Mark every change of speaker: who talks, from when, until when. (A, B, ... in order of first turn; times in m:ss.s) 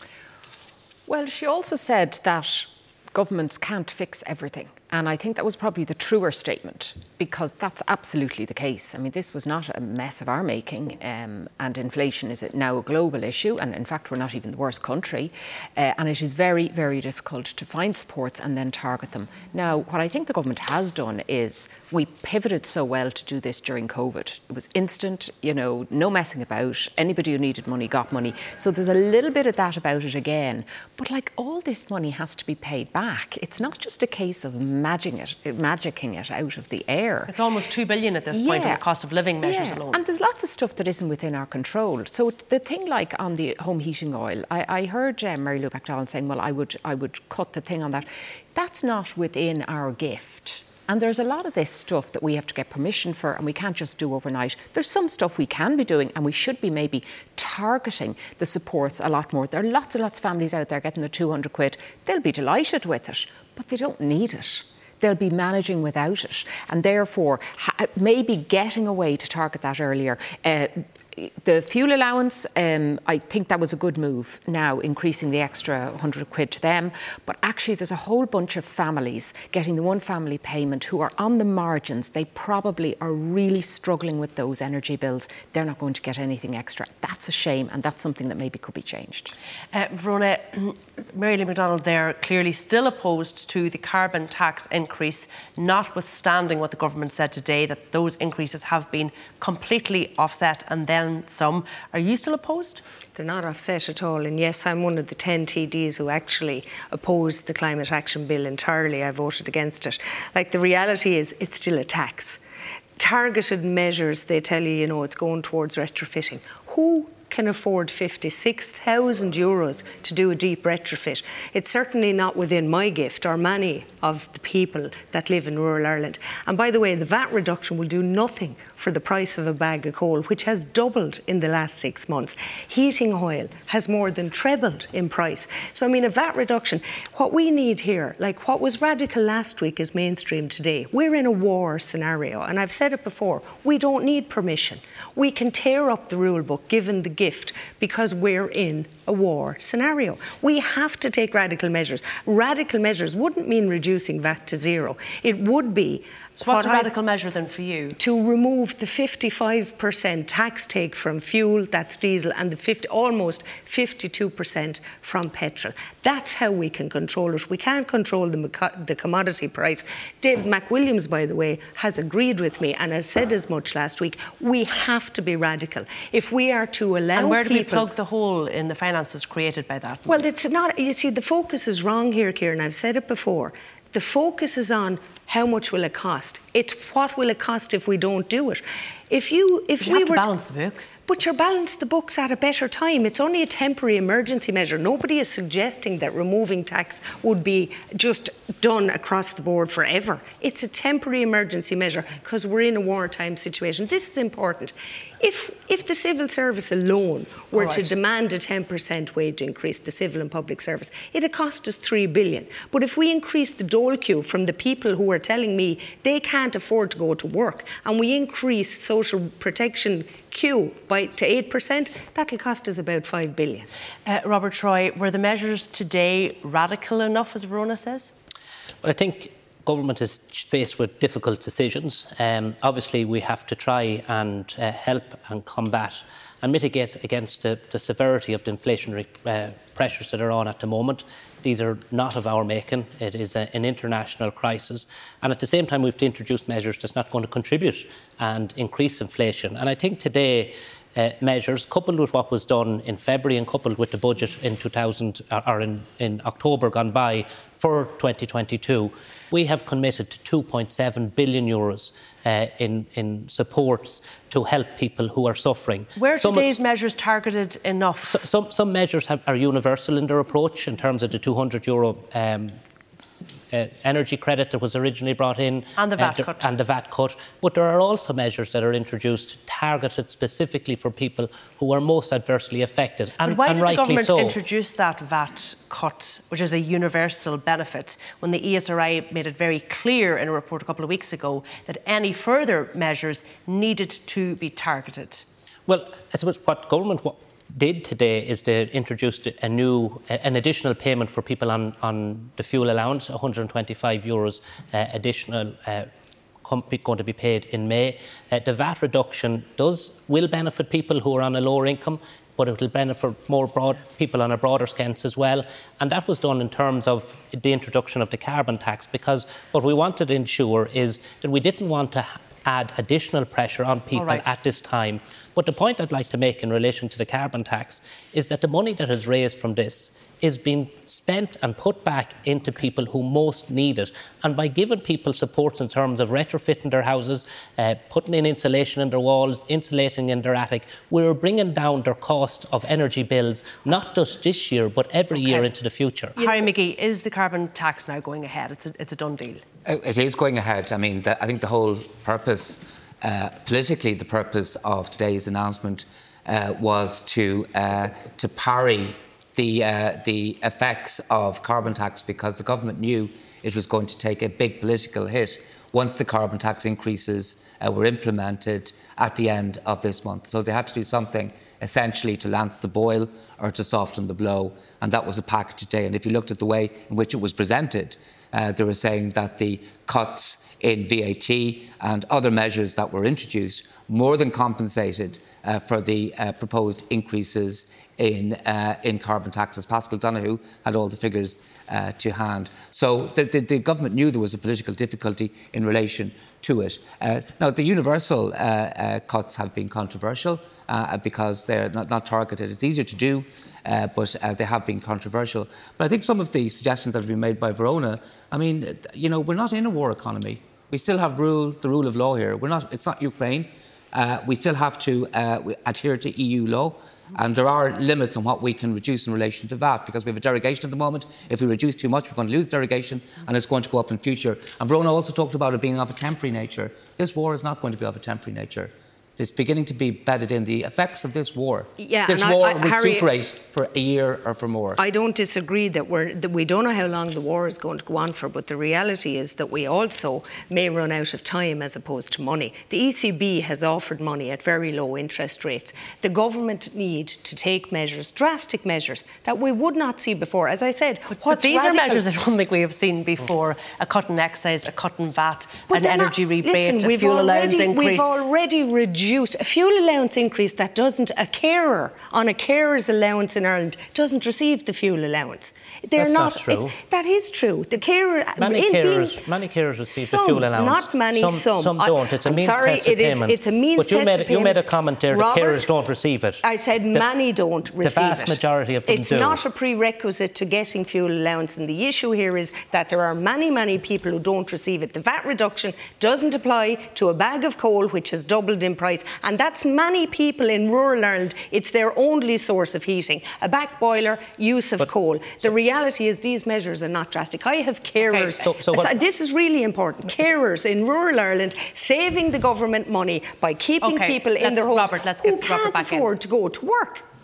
0:01.1-0:37.3 A
0:37.3-0:40.0 B
0:38.3-0:38.8 A
0:39.4-1:29.3 A
1:29.7-1:42.8 B
1:43.1-1:52.4 C
1:53.0-2:36.9 C
2:36.4-2:38.0 B
2:38.0-2:57.9 C
2:57.1-3:00.2 B
3:00.1-3:10.3 C
3:09.8-3:11.0 B
3:11.1-3:43.7 C
3:44.0-3:48.1 B
3:48.8-4:26.5 D
4:26.0-4:28.2 B
4:28.0-4:32.6 D
4:33.5-4:44.4 D
4:35.8-4:36.5 B
4:43.2-4:55.2 B
4:55.7-5:05.9 D
5:06.4-5:46.1 D
5:23.9-5:24.3 B
5:45.1-5:45.5 B
5:46.2-5:49.4 B
5:46.2-5:46.5 C
5:49.6-7:14.8 E
7:11.8-7:13.1 C
7:14.8-7:32.1 C
7:31.1-7:38.3 B
7:35.7-7:49.2 C
7:46.0-7:46.7 D
7:48.4-7:57.0 D
7:49.9-7:55.7 C
7:56.4-8:27.0 C
7:57.8-7:59.4 D
8:18.4-8:18.9 D
8:23.8-8:26.1 B